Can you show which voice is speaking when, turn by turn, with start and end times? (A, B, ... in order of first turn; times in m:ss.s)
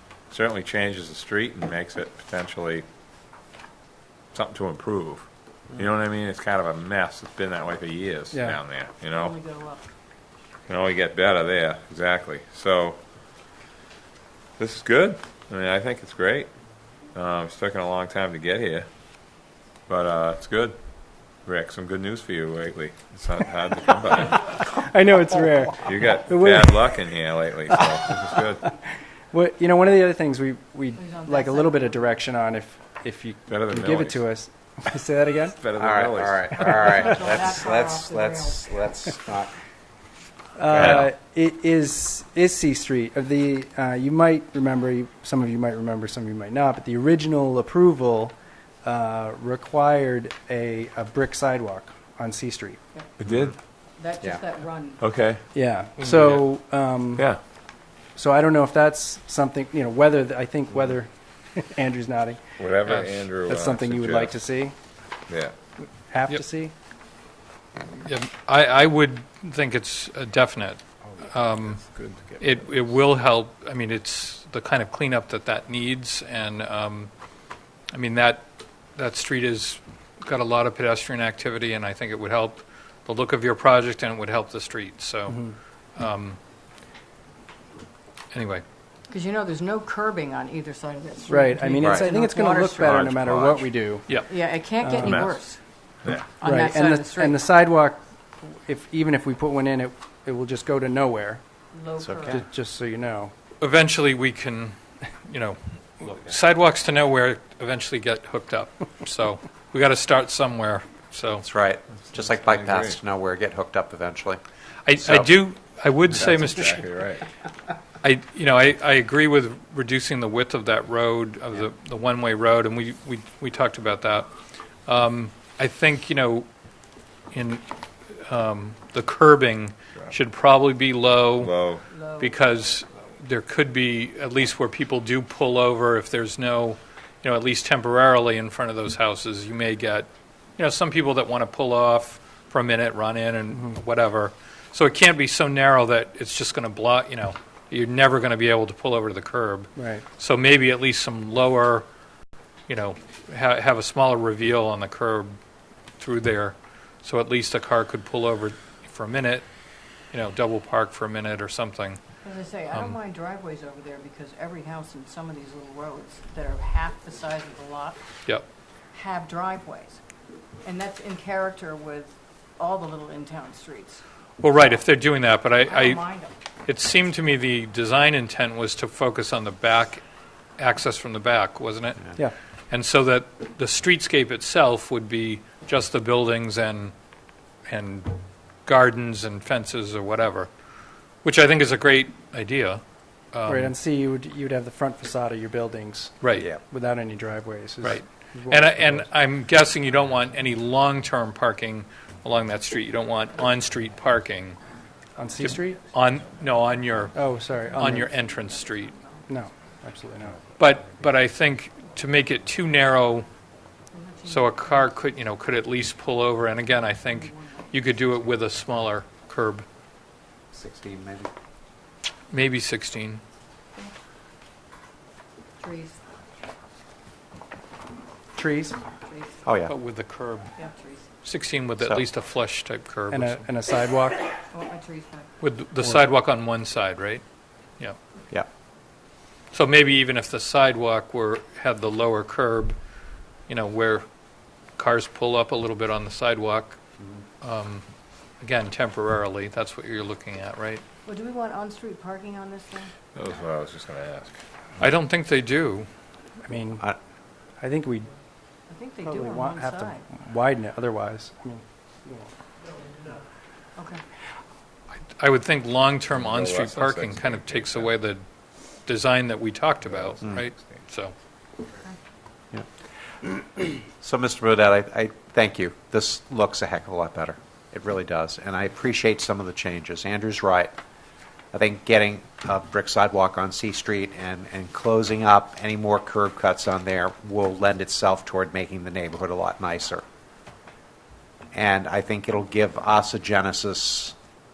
0:00.3-0:02.9 A
0:04.3-0:09.3 A
0:08.3-0:08.6 B
0:09.1-0:09.9 C
0:10.7-0:13.0 A
0:14.6-0:16.5 A
0:17.1-0:18.9 A
0:19.9-0:20.8 A
0:21.4-0:24.5 A
0:24.4-0:27.1 B
0:25.8-0:28.6 A
0:29.3-0:35.6 B
0:30.9-0:32.1 C
0:33.5-0:34.3 A
0:35.4-0:36.8 A
0:35.8-0:39.5 D
0:36.6-0:39.0 C
0:40.6-0:52.8 B
0:40.7-0:41.1 A
0:53.2-0:53.6 A
0:54.0-0:55.0 C
0:55.0-0:55.4 A
0:55.5-0:57.3 B
0:56.0-0:56.4 E
0:57.2-0:57.4 A
0:58.2-1:02.4 B
1:02.6-1:04.4 A
1:02.9-1:03.2 E
1:03.4-1:04.8 B
1:05.3-1:05.5 A
1:06.1-1:06.7 B
1:07.9-1:11.8 E
1:11.2-1:12.8 A
1:12.4-1:17.1 E
1:17.9-1:26.4 E
1:25.3-1:25.6 B
1:28.3-1:28.6 E
1:29.1-1:33.1 C
1:31.3-1:34.2 B
1:31.8-1:32.1 D
1:32.8-1:33.7 A
1:34.1-1:35.6 C
1:34.8-1:35.2 B
1:35.0-1:35.4 A
1:36.2-1:37.5 C
1:36.4-1:41.4 B
1:41.7-1:42.4 C
1:42.0-1:42.4 D
1:42.2-1:43.3 B
1:43.6-1:51.4 E
1:46.1-1:46.4 D
1:51.4-1:54.4 D
1:52.0-1:53.0 A
1:54.8-1:56.9 E
1:55.0-1:55.3 D
1:56.1-1:57.3 A
1:58.0-2:04.3 E
2:04.9-2:06.5 E
2:07.3-2:11.6 E
2:11.4-2:11.8 A
2:11.9-2:12.4 C
2:12.2-2:31.8 E
2:23.5-2:23.8 B
2:29.8-2:30.0 B
2:32.7-2:35.4 E
2:36.0-2:39.4 E
2:40.1-2:42.0 E
2:42.2-2:48.0 C
2:42.7-2:43.0 E
2:48.9-2:50.0 C
2:50.6-2:54.0 C
2:54.4-2:56.0 E
2:55.6-2:56.3 C
2:56.7-3:00.0 E
3:00.6-3:06.9 E
3:07.7-3:08.1 E
3:08.7-3:10.5 E
3:11.2-3:13.7 E
3:13.4-3:19.1 B
3:16.2-3:16.5 E
3:17.8-3:24.6 E
3:25.1-3:25.8 B
3:25.4-3:27.2 E
3:27.1-3:28.1 B
3:27.4-3:29.7 C
3:27.8-3:28.9 E
3:29.3-3:30.4 B
3:30.6-3:33.3 E
3:33.9-3:34.9 C
3:34.2-3:39.7 E
3:37.0-3:37.8 C
3:40.5-3:41.3 D
3:42.3-3:43.2 E
3:45.6-3:46.0 C
3:48.3-3:48.8 B
3:48.8-3:49.4 C
3:49.4-3:49.7 D
3:49.7-3:50.5 E
3:50.6-3:51.1 C
3:51.2-3:53.4 E
3:51.8-3:52.0 D
3:53.1-3:54.2 B
3:54.5-3:55.3 C
3:55.4-3:57.2 E
3:59.5-4:02.8 E
4:03.5-4:04.0 E
4:04.8-4:06.8 E
4:07.4-4:07.8 E
4:08.4-4:10.8 E
4:11.0-4:12.9 C
4:13.1-4:14.4 A
4:14.8-4:15.9 E
4:16.4-4:16.8 B
4:17.6-4:18.1 B
4:18.7-4:20.1 C
4:19.0-4:22.3 B
4:23.8-4:24.0 C
4:25.0-4:28.2 E
4:26.1-4:27.9 A
4:28.8-4:31.1 E
4:29.8-4:30.8 A
4:34.0-4:40.7 D
4:41.5-4:50.0 D
4:51.5-4:54.1 D